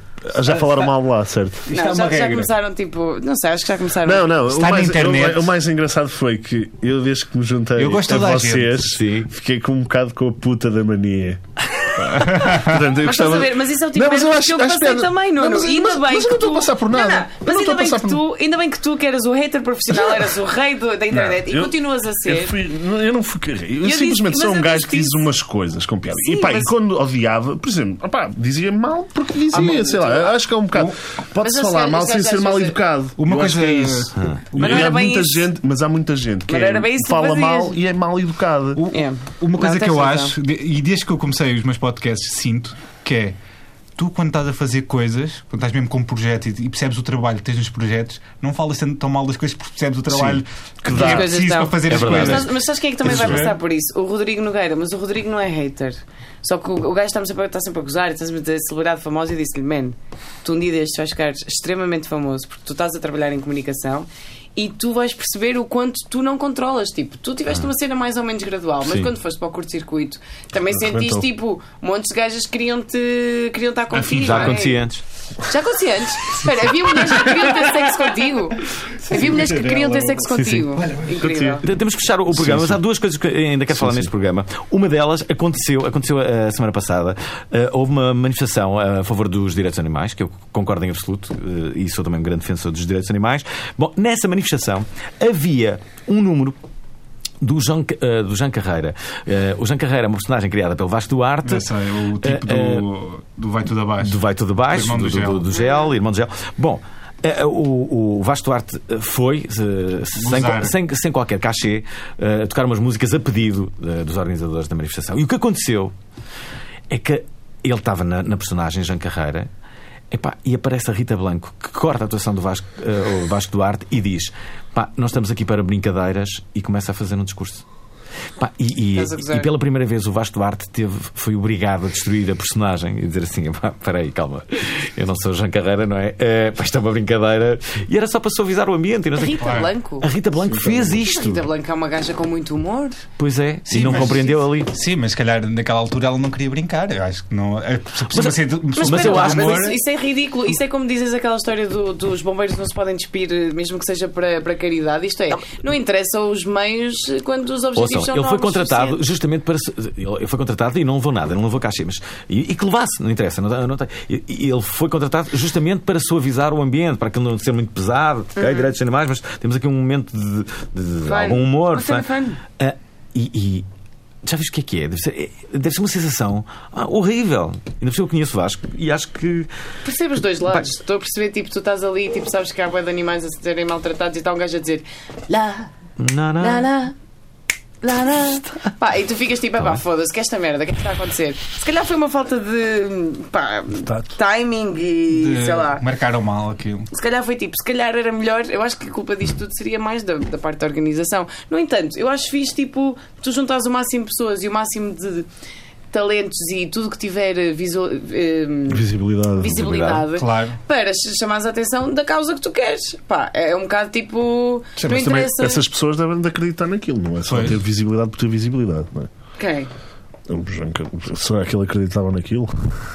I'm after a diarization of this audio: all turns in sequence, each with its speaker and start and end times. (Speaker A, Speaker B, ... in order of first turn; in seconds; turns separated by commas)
Speaker A: 0.3-1.7, Speaker B: 0.5-0.9, Speaker B: 1.7-2.5, Speaker C: 1.7-4.3, Speaker A: 4.0-18.2, Speaker B: 4.5-5.5, Speaker B: 7.8-8.8, Speaker D: 8.9-9.3, Speaker B: 12.1-12.8, Speaker C: 12.9-22.6, Speaker A: 19.9-20.3, Speaker A: 21.1-38.8, Speaker C: 23.8-25.3, Speaker C: 26.1-26.7, Speaker C: 29.5-30.4, Speaker C: 31.4-32.8, Speaker B: 33.2-34.9, Speaker D: 34.2-34.4, Speaker C: 34.6-35.5, Speaker C: 36.5-37.8, Speaker B: 38.8-43.4, Speaker C: 38.9-40.4, Speaker B: 44.0-53.5, Speaker A: 50.1-51.3, Speaker C: 50.9-81.7, Speaker D: 51.9-53.5, Speaker D: 68.8-69.1, Speaker A: 70.7-71.3, Speaker B: 73.9-74.6, Speaker D: 74.2-75.0, Speaker B: 77.1-77.5, Speaker B: 79.0-79.9, Speaker A: 79.1-81.6, Speaker B: 80.8-81.3, Speaker D: 81.6-96.6, Speaker A: 82.3-82.8, Speaker A: 83.7-84.1, Speaker D: 97.4-101.7, Speaker B: 101.4-105.5, Speaker D: 102.2-102.8, Speaker D: 104.0-115.9, Speaker C: 105.5-105.9, Speaker B: 110.2-110.8, Speaker D: 116.9-119.5, Speaker D: 120.1-127.6, Speaker D: 128.4-141.4, Speaker C: 128.9-129.5, Speaker C: 139.2-140.1, Speaker B: 139.4-139.7, Speaker A: 140.5-141.4, Speaker C: 140.9-143.0, Speaker D: 143.2-144.7, Speaker B: 143.7-149.8, Speaker D: 148.1-149.7, Speaker C: 148.8-159.0, Speaker D: 157.8-172.1, Speaker C: 168.4-168.7, Speaker C: 171.0-172.4, Speaker D: 172.6-173.7, Speaker D: 174.2-179.5, Speaker C: 179.8-185.7, Speaker D: 186.0-186.7, Speaker C: 186.4-186.9, Speaker C: 187.8-195.8, Speaker B: 195.1-196.9, Speaker C: 196.9-205.3, Speaker C: 205.9-215.6, Speaker A: 208.7-210.1, Speaker B: 210.1-210.6, Speaker B: 214.8-215.3, Speaker A: 214.9-219.1, Speaker B: 217.3-217.6, Speaker C: 219.4-219.7, Speaker A: 220.3-222.8